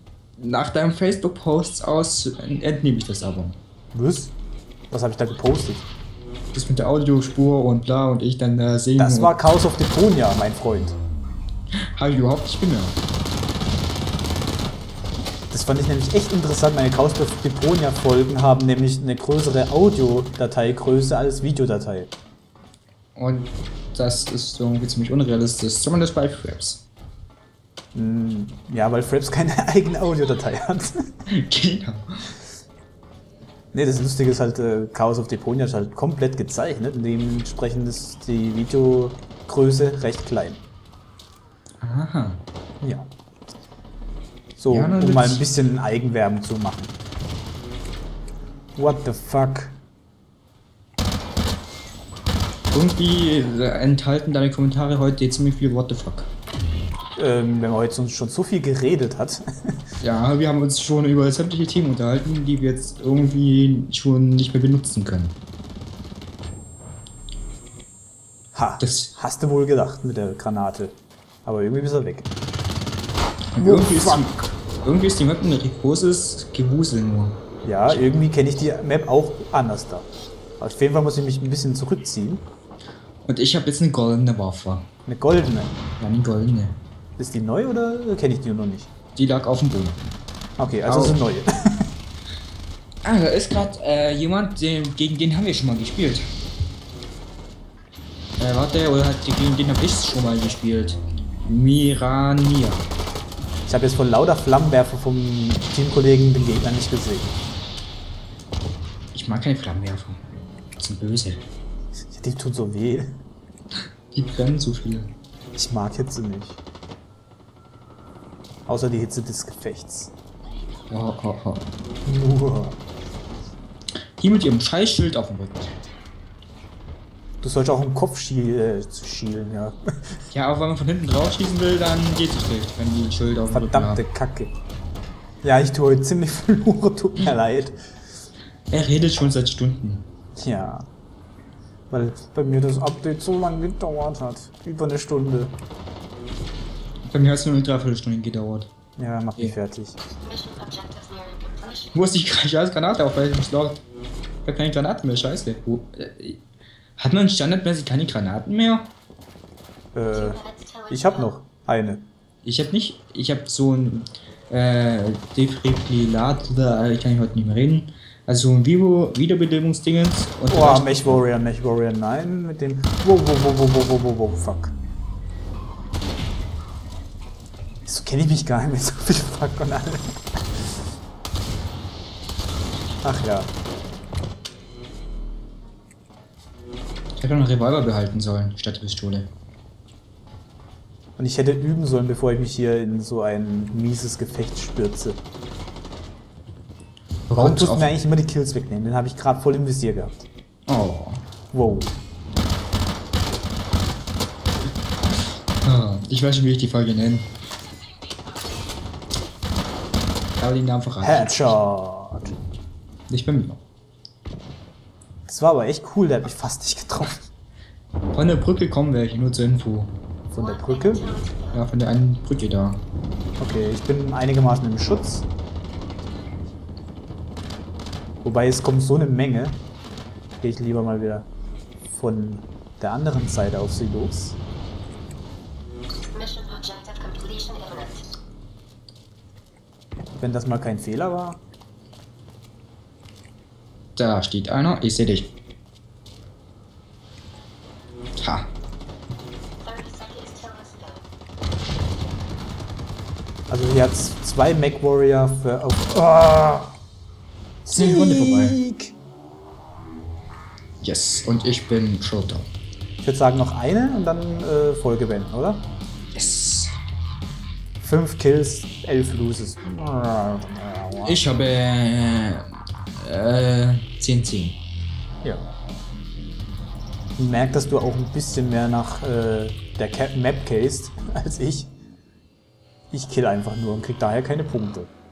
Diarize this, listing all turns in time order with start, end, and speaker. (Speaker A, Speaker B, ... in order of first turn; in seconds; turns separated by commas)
Speaker A: 0.4-3.6, Speaker B: 3.9-4.3, Speaker B: 4.9-5.8, Speaker A: 6.5-9.3, Speaker B: 9.0-11.0, Speaker A: 11.7-13.0, Speaker B: 15.5-22.1, Speaker A: 23.1-26.8, Speaker B: 27.9-31.1, Speaker A: 31.3-32.3, Speaker B: 33.7-40.6, Speaker A: 41.8-42.4, Speaker B: 42.8-43.1, Speaker B: 44.6-46.9, Speaker A: 44.7-45.4, Speaker B: 48.8-49.8, Speaker A: 52.7-56.3, Speaker B: 57.2-59.7, Speaker A: 60.0-65.4, Speaker B: 68.5-72.3, Speaker A: 68.8-69.1, Speaker A: 73.5-78.0, Speaker B: 73.6-74.4, Speaker B: 77.6-80.1, Speaker B: 80.6-82.4, Speaker A: 83.2-84.9, Speaker B: 85.0-85.8, Speaker A: 86.0-86.8, Speaker B: 87.2-88.9, Speaker A: 89.2-90.1, Speaker B: 90.6-91.9, Speaker A: 90.8-91.2, Speaker A: 93.0-96.3, Speaker A: 98.4-102.9, Speaker B: 103.7-107.3, Speaker A: 109.1-110.2, Speaker A: 110.8-111.4, Speaker B: 112.1-113.2, Speaker A: 114.1-115.1, Speaker B: 115.6-116.6, Speaker B: 118.7-120.1, Speaker A: 120.9-121.7, Speaker B: 122.0-122.8, Speaker A: 124.2-125.9, Speaker B: 127.4-129.8, Speaker A: 130.3-134.0, Speaker B: 133.5-134.5, Speaker B: 135.4-137.8, Speaker A: 138.7-140.1, Speaker B: 140.4-140.9, Speaker B: 141.9-145.5, Speaker A: 147.0-148.7, Speaker B: 149.0-150.0, Speaker C: 150.2-152.0, Speaker A: 151.9-153.8, Speaker A: 154.4-156.4, Speaker A: 157.0-158.9, Speaker B: 159.9-162.1, Speaker C: 160.1-161.3, Speaker A: 162.4-171.2, Speaker B: 170.5-174.7, Speaker B: 177.8-180.1, Speaker B: 183.0-183.5, Speaker A: 187.2-189.3, Speaker B: 191.2-195.2, Speaker A: 197.3-197.9, Speaker B: 197.3-200.3, Speaker A: 200.7-201.2, Speaker B: 201.5-201.9, Speaker A: 205.1-207.3, Speaker A: 210.4-211.6, Speaker B: 211.0-212.3, Speaker A: 213.1-213.6, Speaker B: 215.3-217.3, Speaker A: 218.1-219.9, Speaker B: 220.3-221.2, Speaker C: 220.4-221.7, Speaker A: 221.5-222.8, Speaker B: 223.4-225.2, Speaker B: 228.2-229.6, Speaker B: 230.4-231.3, Speaker B: 231.9-234.4, Speaker C: 236.0-238.1, Speaker B: 240.2-241.4, Speaker A: 243.9-245.3, Speaker A: 248.2-248.5, Speaker C: 249.6-251.1, Speaker B: 253.5-256.7, Speaker B: 257.6-258.9, Speaker A: 257.7-258.6, Speaker A: 260.8-262.5, Speaker B: 263.0-265.7, Speaker A: 266.1-266.7, Speaker B: 267.8-271.2, Speaker A: 271.0-274.6, Speaker B: 277.2-281.7, Speaker B: 282.9-284.9